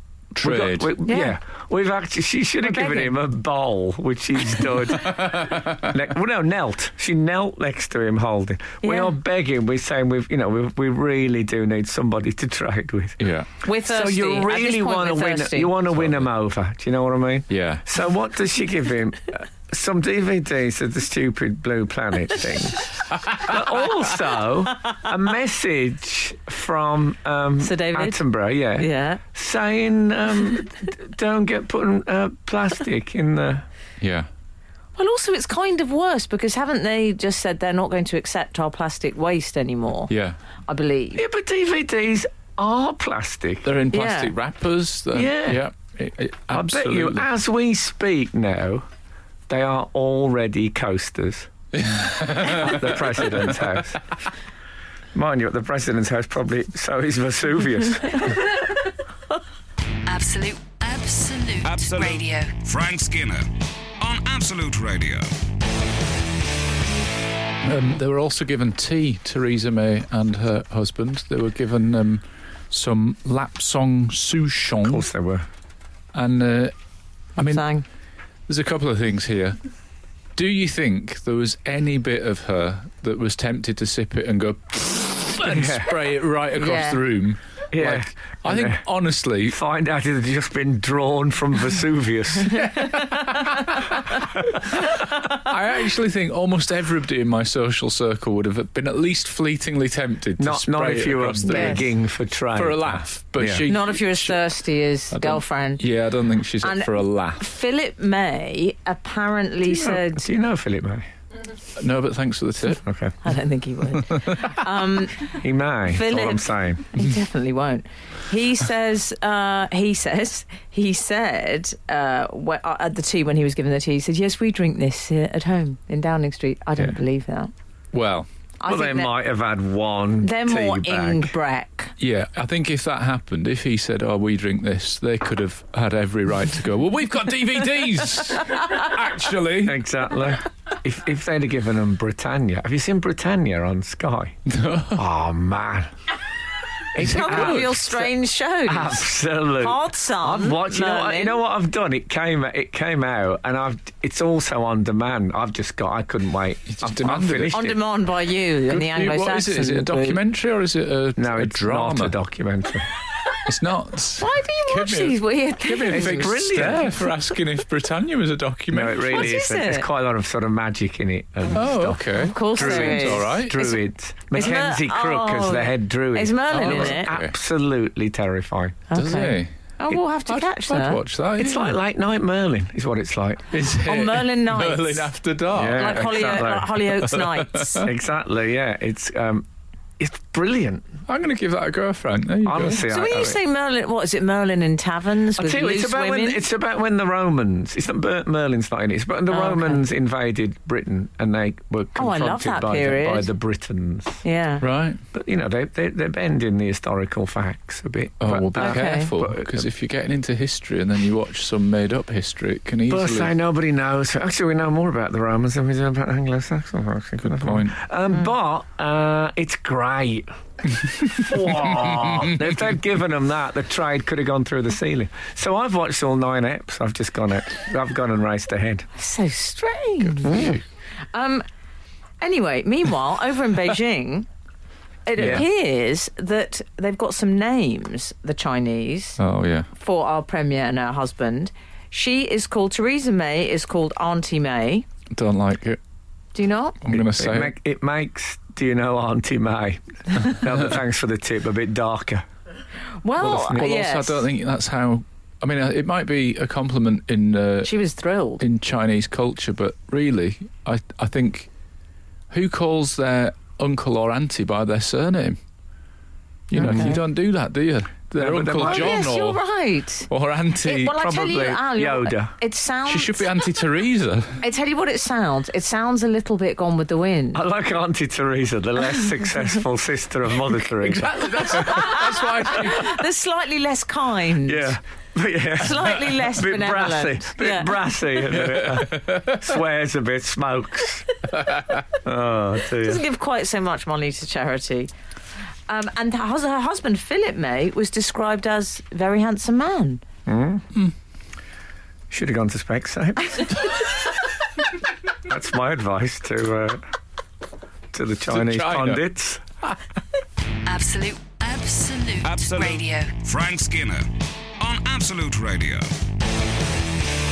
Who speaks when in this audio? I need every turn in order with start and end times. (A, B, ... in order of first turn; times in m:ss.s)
0:00.3-0:33.6 A
0:00.4-0:01.0 B
0:01.1-0:01.4 C
0:02.6-0:03.2 C
0:05.0-0:05.9 B
0:08.8-0:09.2 C
0:13.2-0:13.5 B
0:13.6-0:15.8 C
0:17.5-0:17.8 B
0:23.1-0:23.4 B
0:27.6-0:28.2 C
0:28.8-0:29.2 C
0:34.0-0:34.3 B
0:35.0-0:40.1 C
0:40.1-0:40.4 B
0:40.7-0:41.2 C
0:41.2-0:43.7 A
0:43.6-0:47.3 B
0:43.9-0:44.3 C
0:45.1-0:45.6 A
0:46.5-0:48.9 A
0:49.5-0:51.5 A
0:51.7-0:53.6 B
0:52.4-0:54.0 A
0:55.1-0:58.5 A
1:00.1-1:02.6 D
1:01.6-1:03.5 E
1:04.0-1:05.3 E
1:07.6-1:15.1 B
1:14.8-1:15.5 A
1:16.1-1:16.7 B
1:17.4-1:17.7 B
1:17.4-1:17.8 C
1:18.5-1:19.6 B
1:20.4-1:29.6 B
1:25.4-1:25.9 A
1:26.6-1:27.0 C
1:27.7-1:28.8 A
1:29.5-1:32.8 A
1:32.5-1:34.0 B
1:34.7-1:42.0 B
1:40.4-1:43.7 A
1:41.4-1:41.9 C
1:42.5-1:44.4 B
1:43.7-1:45.8 C
1:45.1-1:47.4 B
1:46.6-1:50.2 C
1:49.7-1:51.1 A
1:51.8-1:52.8 B
1:52.8-1:53.2 A
1:53.2-2:07.5 C
1:54.1-1:54.6 B
1:55.4-1:56.9 A
2:07.9-2:08.3 B
2:08.6-2:09.1 C
2:08.7-2:11.4 A
2:10.2-2:11.9 C
2:12.0-2:19.8 B
2:19.6-2:24.4 A
2:24.5-2:25.0 B
2:24.9-2:25.9 A
2:26.9-2:28.1 A
2:27.0-2:27.8 B
2:27.0-2:29.1 C
2:28.7-2:37.8 A
2:29.6-2:31.4 C
2:36.7-2:37.8 B
2:37.5-2:40.2 C
2:38.7-2:42.2 B
2:41.2-2:42.9 A
2:43.4-2:49.4 B
2:44.2-2:46.5 C
2:45.9-2:47.0 A
2:48.7-2:58.9 A
2:49.1-2:49.9 C
2:51.5-2:53.7 B
2:52.2-2:57.1 C
2:56.5-2:57.3 B
2:58.9-3:01.0 C
2:58.9-2:59.5 B
3:00.3-3:01.8 B
3:01.4-3:03.5 A
3:03.5-3:07.9 B
3:03.8-3:07.9 C
3:05.5-3:06.7 A
3:07.8-3:09.5 A
3:10.0-3:11.0 A
3:11.1-3:12.9 B
3:12.4-3:13.4 A
3:12.8-3:16.4 C
3:15.4-3:24.2 A
3:19.3-3:19.8 C
3:22.0-3:23.3 C
3:24.2-3:24.6 C
3:24.6-3:25.0 B
3:25.1-3:29.7 A
3:28.2-3:33.3 B
3:28.6-3:29.1 C
3:32.9-3:48.9 A
3:37.2-3:37.8 B
3:41.4-3:42.5 B
3:49.0-3:50.6 C
3:50.2-3:50.6 A
3:50.3-3:50.6 B
3:51.1-3:51.4 C
3:52.2-3:54.3 C
3:55.1-3:59.2 C
3:55.2-3:55.4 B
3:55.2-3:55.5 A
3:59.2-3:59.7 B
3:59.8-4:04.9 C
4:05.1-4:05.8 B
4:06.3-4:06.8 C
4:06.8-4:07.5 B
4:06.9-4:12.3 A
4:13.0-4:14.2 C
4:13.2-4:13.7 A
4:13.2-4:17.7 B
4:17.6-4:18.4 C
4:18.4-4:21.5 B
4:22.3-4:25.4 B
4:26.5-4:29.4 B
4:26.5-4:27.0 A
4:26.6-4:27.0 C
4:28.2-4:29.1 A
4:28.6-4:30.1 C
4:30.1-4:31.0 B
4:30.6-4:33.3 C
4:30.9-4:32.3 A
4:32.9-4:34.4 B
4:34.4-4:37.4 C
4:37.3-4:41.9 A
4:40.8-4:43.0 B
4:41.5-4:44.8 C
4:44.5-4:51.1 A
4:45.6-4:47.8 C
4:48.3-4:49.4 B
4:52.0-4:53.0 A
4:52.8-4:54.9 C
4:55.7-5:00.0 C
5:00.3-5:00.7 A
5:02.1-5:03.5 A
5:05.2-5:06.8 A
5:07.9-5:09.4 A
5:08.3-5:09.0 B
5:10.6-5:13.2 D
5:12.2-5:16.0 E